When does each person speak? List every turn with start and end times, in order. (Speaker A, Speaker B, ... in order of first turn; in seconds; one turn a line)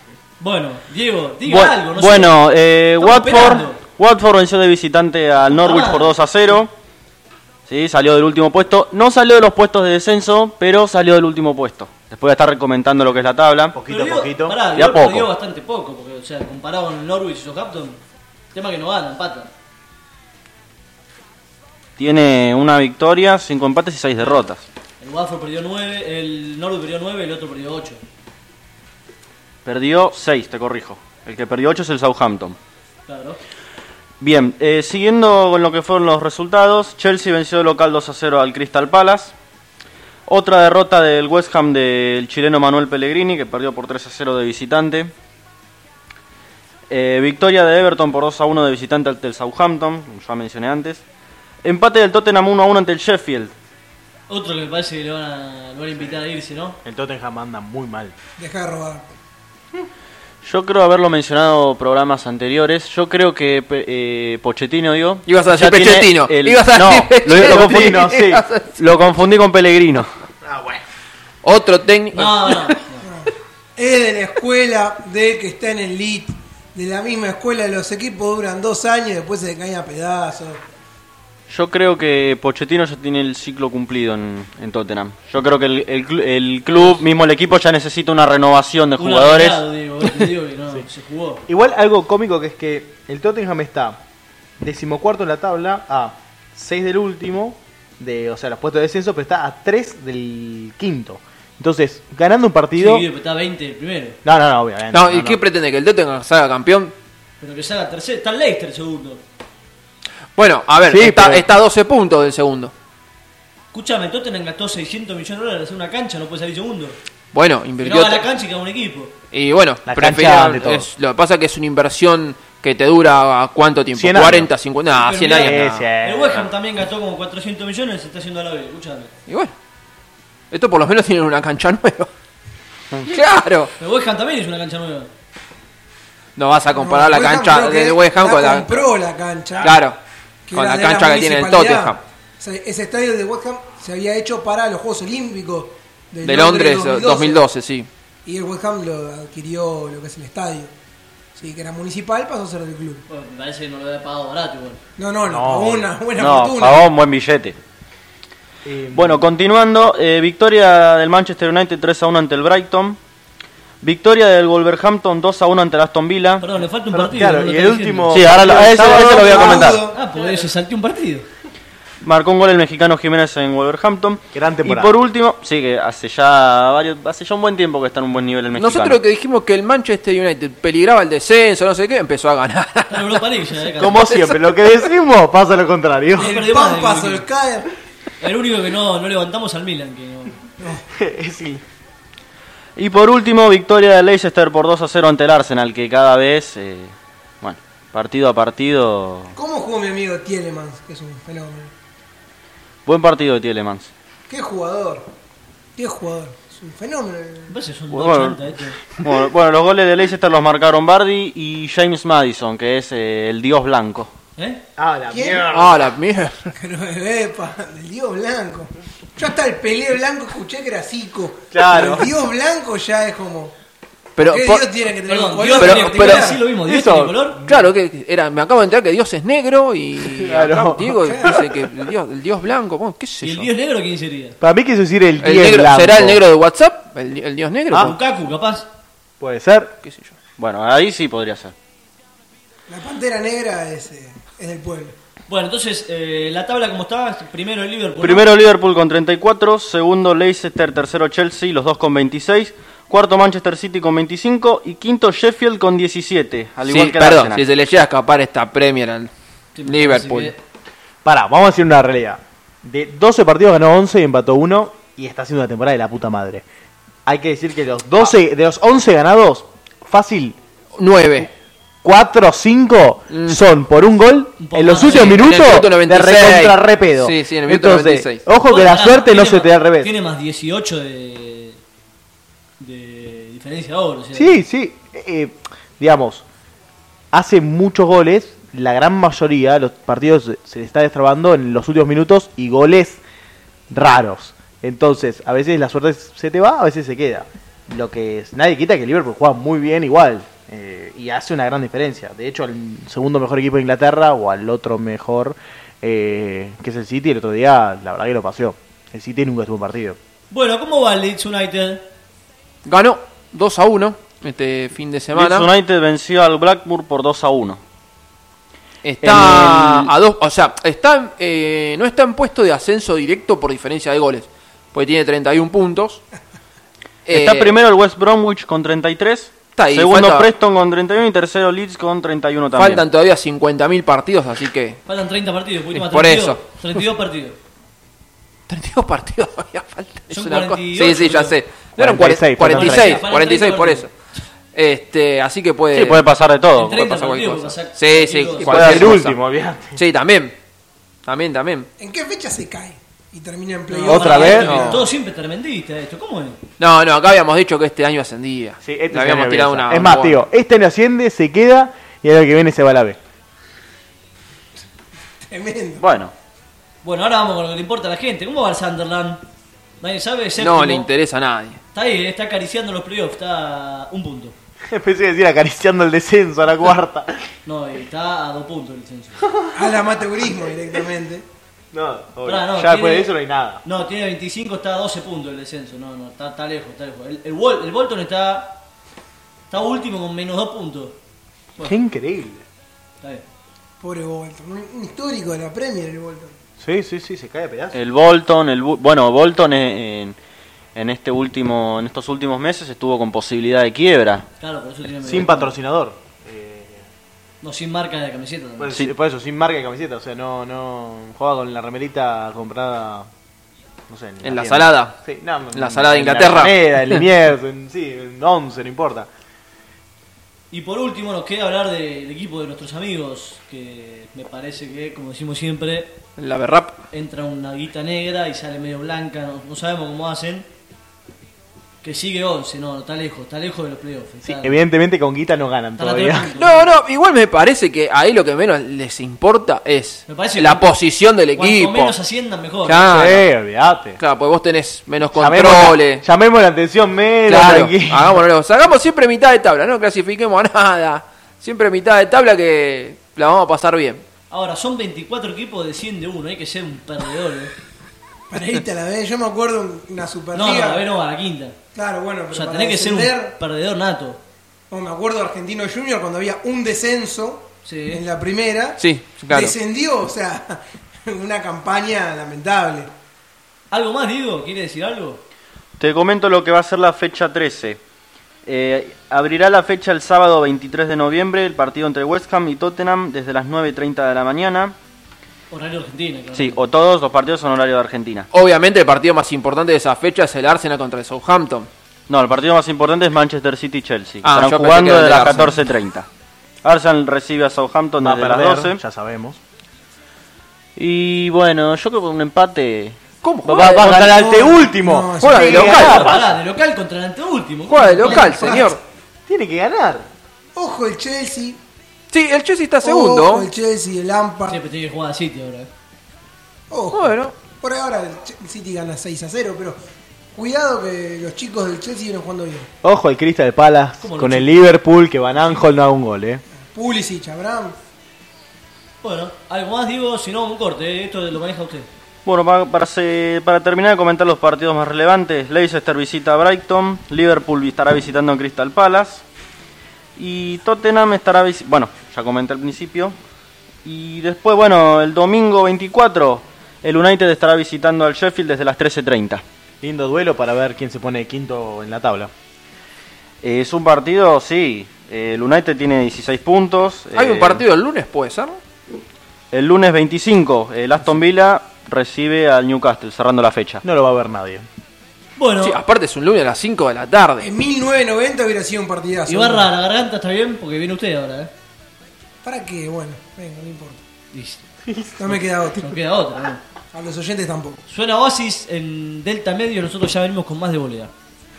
Speaker A: 0.4-2.4
Speaker B: 1.4-6.7
Speaker A: 3.0-3.8
Speaker A: 5.5-6.2
Speaker B: 7.7-13.8
Speaker C: 13.7-14.6
Speaker A: 13.9-18.0
Speaker B: 14.7-15.3
Speaker A: 18.5-19.5
Speaker B: 22.0-24.6
Speaker A: 24.2-24.4
Speaker A: 25.0-28.0
Speaker B: 29.6-32.6
Speaker A: 33.1-33.4
Speaker B: 34.2-39.3
Speaker B: 40.2-45.1
Speaker B: 46.9-51.0
Speaker B: 51.6-53.5
Speaker A: 54.3-56.8
Speaker C: 56.8-58.1
Speaker D: 58.4-59.1
Speaker B: 60.4-68.0
Speaker E: 65.2-68.8
Speaker C: 67.3-68.5
Speaker B: 68.8-70.1
Speaker C: 70.5-70.8
Speaker E: 71.4-72.8
Speaker A: 72.1-73.0
Speaker D: 73.0-80.6
Speaker B: 81.5-89.7
Speaker A: 86.7-87.0
Speaker A: 89.0-91.4
Speaker C: 91.5-94.0
Speaker C: 94.6-103.0
Speaker A: 102.8-104.2
Speaker C: 104.2-105.4
Speaker E: 104.9-106.9
Speaker A: 107.4-109.2
Speaker E: 110.3-112.7
Speaker C: 110.8-111.5
Speaker A: 113.7-117.0
Speaker E: 117.3-118.2
Speaker A: 117.8-119.1
Speaker E: 119.3-125.9
Speaker C: 119.8-120.9
Speaker C: 123.9-124.5
Speaker A: 125.0-129.1
Speaker C: 125.3-126.5
Speaker E: 129.3-129.5
Speaker E: 130.5-132.1
Speaker E: 133.0-133.7
Speaker A: 133.8-135.1
Speaker E: 136.3-138.9
Speaker D: 136.7-139.8
Speaker E: 139.6-140.0
Speaker D: 140.5-147.4
Speaker E: 140.5-142.0
Speaker E: 146.2-147.9
Speaker D: 148.2-150.7
Speaker D: 151.3-153.1
Speaker A: 153.1-154.8
Speaker D: 155.0-156.9
Speaker C: 155.2-155.9
Speaker B: 156.2-157.6
Speaker C: 158.6-159.2
Speaker B: 158.9-163.0
Speaker B: 163.8-166.5
Speaker A: 166.4-168.3
Speaker C: 166.9-169.7
Speaker B: 168.1-169.9
Speaker D: 168.5-170.4
Speaker A: 169.6-171.2
Speaker B: 172.0-179.0
Speaker C: 174.3-175.0
Speaker E: 178.5-183.2
Speaker A: 182.9-184.1
Speaker C: 183.8-186.4
Speaker E: 183.8-184.7
Speaker A: 186.2-187.2
Speaker D: 186.2-187.7
Speaker A: 188.2-190.4
Speaker D: 190.6-190.8
Speaker C: 190.9-191.6
Speaker B: 192.8-199.3
Speaker D: 199.3-201.7
Speaker B: 202.8-203.9
Speaker D: 204.3-205.1
Speaker D: 205.8-207.5
Speaker A: 207.5-208.8
Speaker B: 207.9-208.4
Speaker B: 209.0-214.1
Speaker A: 214.4-214.6
Speaker C: 214.8-215.9
Speaker D: 215.1-215.5
Speaker E: 215.5-216.5
Speaker D: 216.6-223.5
Speaker C: 221.5-222.1
Speaker E: 224.2-224.7
Speaker D: 224.2-226.4
Speaker A: 225.1-227.4
Speaker E: 225.6-226.2
Speaker C: 226.6-227.7
Speaker E: 227.4-233.5
Speaker C: 230.0-231.6
Speaker D: 231.0-231.3
Speaker A: 233.2-234.4
Speaker C: 234.4-236.2
Speaker E: 235.2-237.9
Speaker C: 237.7-237.9
Speaker A: 237.8-238.7
Speaker C: 239.2-239.8
Speaker E: 239.8-240.1
Speaker B: 240.4-241.5
Speaker D: 242.7-244.9
Speaker A: 245.3-248.3
Speaker B: 248.0-257.4
Speaker E: 256.6-259.1
Speaker A: 259.5-260.4
Speaker E: 259.6-260.3
Speaker C: 261.0-266.4
Speaker C: 267.1-270.4
Speaker E: 270.8-271.3
Speaker C: 271.8-279.9
Speaker E: 273.1-273.4
Speaker A: 274.4-275.2
Speaker E: 274.8-278.2
Speaker A: 278.4-281.6
Speaker A: 282.6-284.4
Speaker C: 284.1-286.2
Speaker C: 287.1-293.0
Speaker C: 293.7-310.0
Speaker A: 310.3-311.8
Speaker E: 312.6-315.5
Speaker B: 315.1-317.6
Speaker E: 318.8-326.0
Speaker B: 319.0-319.9
Speaker E: 327.1-327.6
Speaker B: 327.1-332.8
Speaker E: 329.6-330.3
Speaker E: 332.6-334.8
Speaker A: 334.9-337.4
Speaker E: 335.7-336.4
Speaker E: 338.5-343.9
Speaker A: 340.1-341.4
Speaker C: 341.8-343.0
Speaker A: 342.5-343.9
Speaker E: 344.5-346.1
Speaker B: 345.7-346.9
Speaker A: 346.5-348.8
Speaker E: 346.8-349.2
Speaker C: 348.4-349.8
Speaker E: 349.7-350.4
Speaker E: 351.1-351.7
Speaker D: 351.8-354.7
Speaker C: 353.8-354.9
Speaker A: 353.8-356.4
Speaker E: 354.3-354.8
Speaker E: 356.6-360.2
Speaker C: 358.6-363.0
Speaker D: 365.2-365.9
Speaker B: 365.8-366.1
Speaker A: 366.8-369.2
Speaker A: 369.8-370.9
Speaker E: 370.4-371.6
Speaker A: 371.7-374.3
Speaker C: 374.7-377.2
Speaker A: 377.4-379.2
Speaker C: 379.2-379.8
Speaker D: 379.5-381.2
Speaker C: 381.7-383.6
Speaker A: 382.2-388.6
Speaker A: 389.5-391.0
Speaker C: 391.6-392.4
Speaker D: 393.8-396.4
Speaker C: 396.6-397.8
Speaker B: 397.7-400.1
Speaker B: 400.7-404.2
Speaker A: 404.4-405.5
Speaker C: 405.0-406.9
Speaker A: 407.4-408.8
Speaker C: 408.6-413.1
Speaker C: 413.9-419.1
Speaker E: 414.2-415.0
Speaker E: 415.5-417.0
Speaker A: 420.5-426.0
Speaker E: 426.2-426.8
Speaker A: 426.9-430.5
Speaker A: 431.8-434.6
Speaker C: 434.2-436.3
Speaker A: 435.8-436.7
Speaker E: 436.4-441.9
Speaker A: 440.1-440.7
Speaker A: 441.3-442.9
Speaker E: 442.6-443.3
Speaker C: 442.8-444.0
Speaker E: 444.0-446.0
Speaker C: 445.1-448.2
Speaker E: 447.3-454.0
Speaker A: 454.3-457.5
Speaker D: 458.3-460.9
Speaker A: 460.3-461.6
Speaker D: 461.7-463.4
Speaker A: 462.3-464.2
Speaker D: 464.7-472.9
Speaker A: 467.6-468.0
Speaker E: 468.8-469.5
Speaker A: 473.7-475.2
Speaker B: 475.8-477.8
Speaker B: 478.4-484.8
Speaker A: 485.5-486.6
Speaker B: 486.3-488.3
Speaker E: 488.3-491.7
Speaker B: 492.1-496.1
Speaker E: 494.2-495.6
Speaker B: 496.6-498.8
Speaker C: 498.0-499.4
Speaker B: 500.8-503.0
Speaker E: 503.2-504.1
Speaker C: 503.4-506.4
Speaker D: 503.8-505.8
Speaker E: 505.2-506.1
Speaker A: 505.6-508.6
Speaker E: 507.7-508.8
Speaker D: 508.0-508.8
Speaker C: 509.3-510.1
Speaker D: 510.5-511.6
Speaker E: 512.1-513.5
Speaker D: 512.8-514.6
Speaker A: 514.5-515.7
Speaker D: 516.7-519.8
Speaker E: 516.9-517.3
Speaker D: 520.3-522.7
Speaker C: 522.8-526.4
Speaker A: 524.0-524.6
Speaker D: 526.7-527.8
Speaker A: 529.0-531.9
Speaker B: 532.2-539.2
Speaker B: 540.1-543.1
Speaker B: 543.8-549.4
Speaker C: 549.8-552.3
Speaker B: 553.4-557.6
Speaker E: 557.1-558.6
Speaker B: 559.5-563.8
Speaker C: 563.8-564.7
Speaker A: 565.4-565.8
Speaker E: 565.6-567.5
Speaker D: 567.4-569.7
Speaker A: 569.3-571.5
Speaker D: 572.4-574.0
Speaker A: 574.3-574.6
Speaker C: 574.9-575.1
Speaker D: 575.2-576.0
Speaker A: 575.8-576.6
Speaker D: 576.9-577.8
Speaker A: 577.9-581.1